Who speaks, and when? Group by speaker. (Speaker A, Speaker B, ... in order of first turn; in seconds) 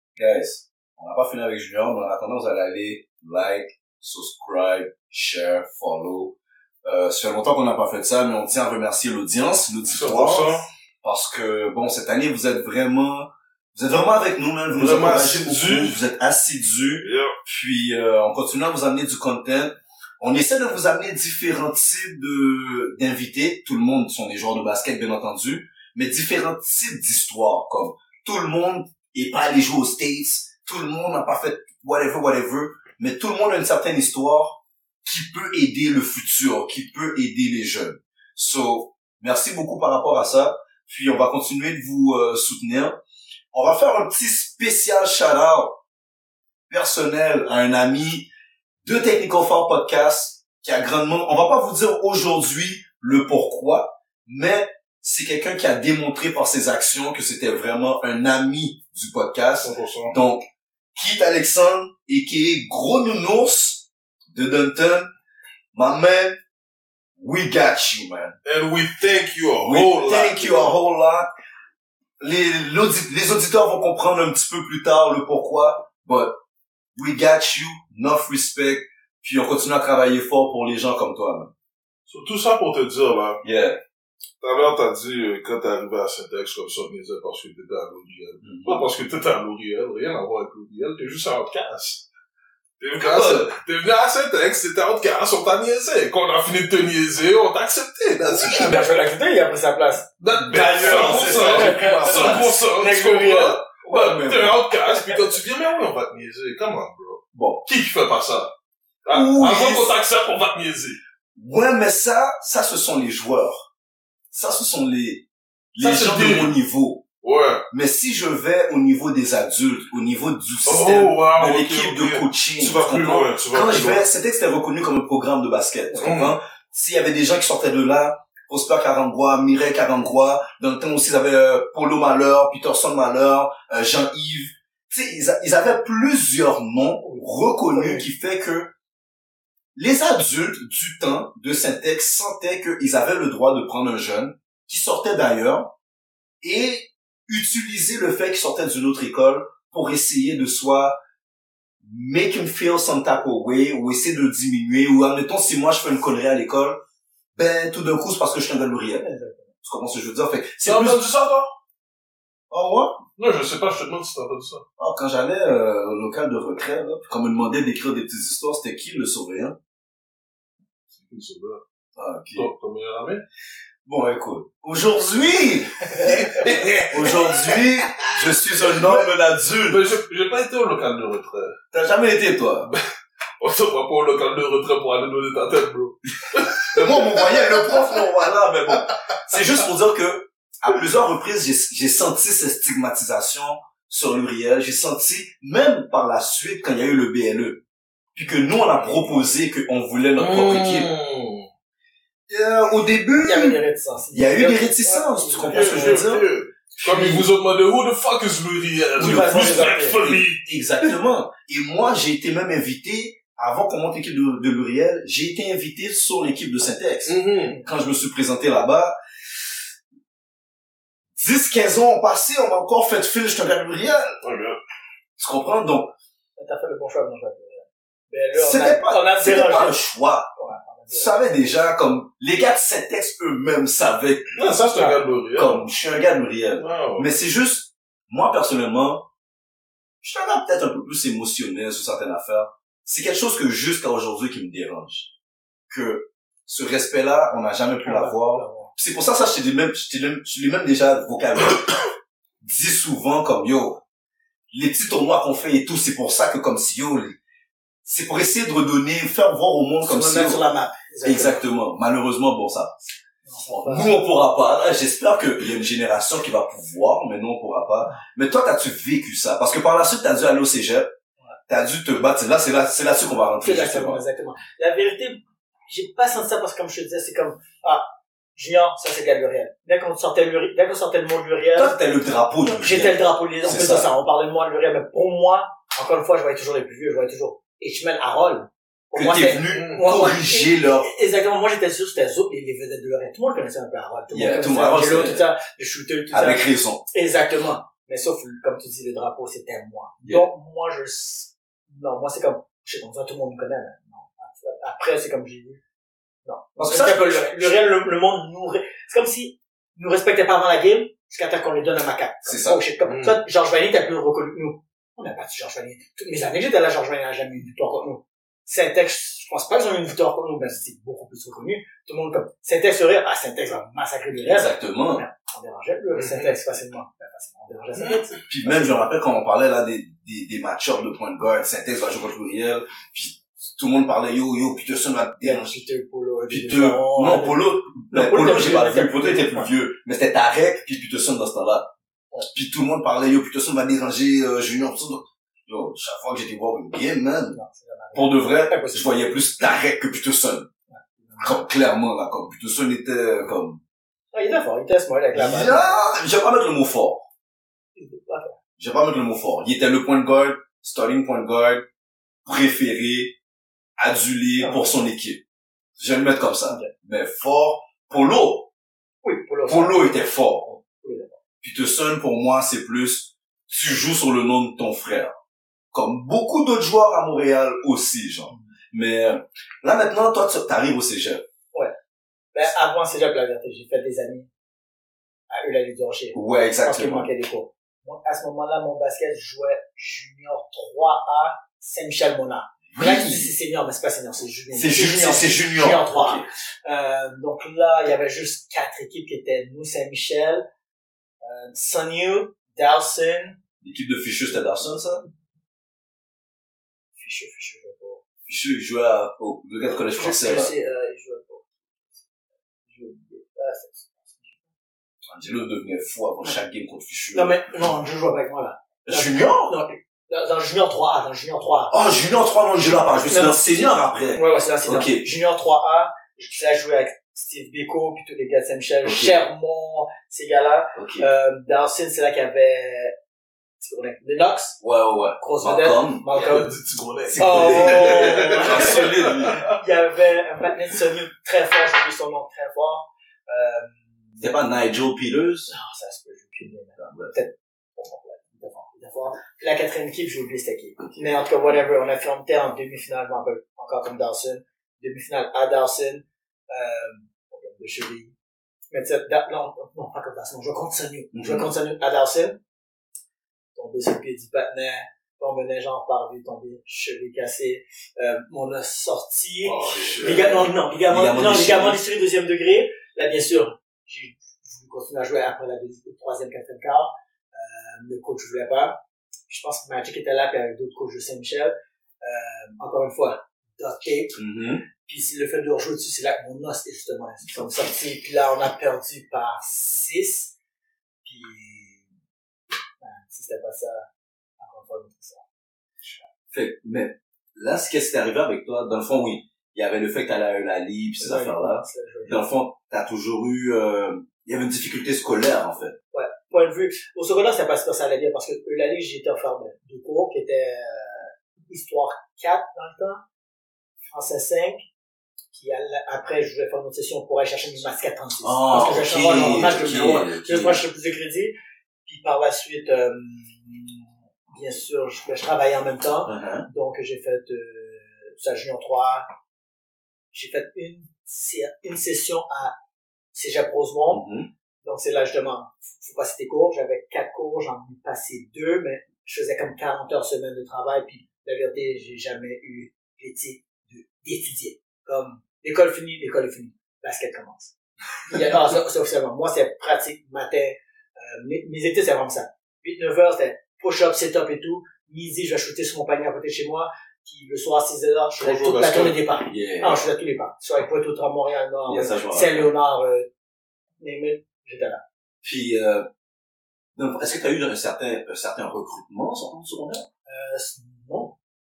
Speaker A: 0.1-43.0, 43.5-45.8, 46.7-48.3, 48.8-60.4, 60.9-65.1, 65.7-66.4, 67.2-68.3, 69.6-71.3, 72.2-76.4, 76.9-81.5, 83.4-83.8, 88.4-88.9, 93.0-93.5, 100.4-102.5, 103.8-104.6, 107.3-107.6, 109.1-109.9, 111.3-113.7, 114.3-117.0, 117.7-138.7, 139.8-145.7, 146.4-151.0, 151.8-156.8, 157.3-159.1, 159.6-161.0, 162.5-163.0, 164.8-169.6, 171.9-172.5, 173.8-176.1, 176.9-179.8, 181.7-182.7, 186.7-197.6, 198.1-200.9, 202.3-203.6, 204.1-207.3, 209.0-219.0, 221.2-224.2, 225.2-225.9, 228.3-230.3, 230.9-234.3, 235.3-239.1, 240.0-245.1, 245.7-251.8, 252.4-253.8, 254.5-257.2, 257.8-260.4, 261.0-262.8, 263.4-270.9, 271.5-274.0, 281.5-283.9, 288.9-290.9, 294.1-295.2, 296.1-296.8, 306.6-307.5, 312.2-312.6, 324.1-325.0, 328.3-335.6, 336.3-341.7, 342.3-347.4, 347.9-350.5, 351.2-353.6, 355.1-357.1, 358.6-361.6, 362.2-363.2, 363.8-365.2, 365.8-368.5, 369.5-370.5, 371.4-375.1, 375.7-381.2, 386.1-387.1, 392.7-393.3, 394.5-396.2, 403.6-405.1, 408.3-410.5, 415.1-417.4, 418.9-419.5, 421.7-425.1, 428.8-429.2, 430.7-431.1, 434.6-436.2, 437.1-439.4, 444.2-445.5, 446.8-447.1, 461.1-461.5, 469.7-471.8, 484.1-484.6, 496.3-505.8, 518.2-520.6, 526.0-526.5, 533.9-534.3, 559.3-559.8, 561.7-562.5, 565.2-565.9, 566.8-569.9
Speaker B: 9.8-10.7, 14.7-15.9, 17.0-17.3, 59.6-60.1, 68.4-70.7, 82.1-83.4, 84.4-92.0, 92.8-98.8, 100.2-108.5, 109.0-111.0, 115.8-116.5, 117.2-117.6, 120.7-124.0, 126.0-126.3, 160.6-161.5, 163.2-164.6, 170.9-171.6, 172.3-173.2, 175.9-179.1, 179.7-181.6, 183.4-187.8, 200.2-201.5, 205.4-210.4, 217.1-217.6, 224.2-224.6, 234.3-235.6, 236.6-237.1, 289.5-289.8, 312.9-313.2, 325.9-326.4, 436.1-439.5, 469.4-470.5, 558.2-559.0
Speaker C: 98.4-103.6, 137.0-138.1, 159.0-159.5, 203.2-205.9, 209.0-210.0, 226.4-229.8, 230.3-231.3, 247.8-248.7, 259.8-261.4, 263.2-264.0, 273.4-281.8, 282.4-305.6, 306.2-328.2, 335.2-339.5, 347.3-348.9, 350.7-351.4, 354.1-355.9, 357.8-358.4, 364.4-364.7, 369.0-371.2, 382.3-384.3, 385.3-400.4, 401.2-403.4, 406.9-408.0, 409.9-411.4, 412.7-414.5, 417.1-421.7, 422.9-432.9, 433.6-434.6, 435.2-436.5, 437.2-444.3, 445.5-458.1, 458.7-462.4, 463.5-484.2, 484.8-490.3, 491.0-491.9, 492.8-493.9, 494.4-495.2, 501.0-502.2, 505.9-513.0, 513.8-514.6, 515.3-521.3, 521.8-529.1, 530.1-532.5, 533.1-534.0, 534.6-547.5, 548.0-563.1, 563.8-564.8, 570.0-571.1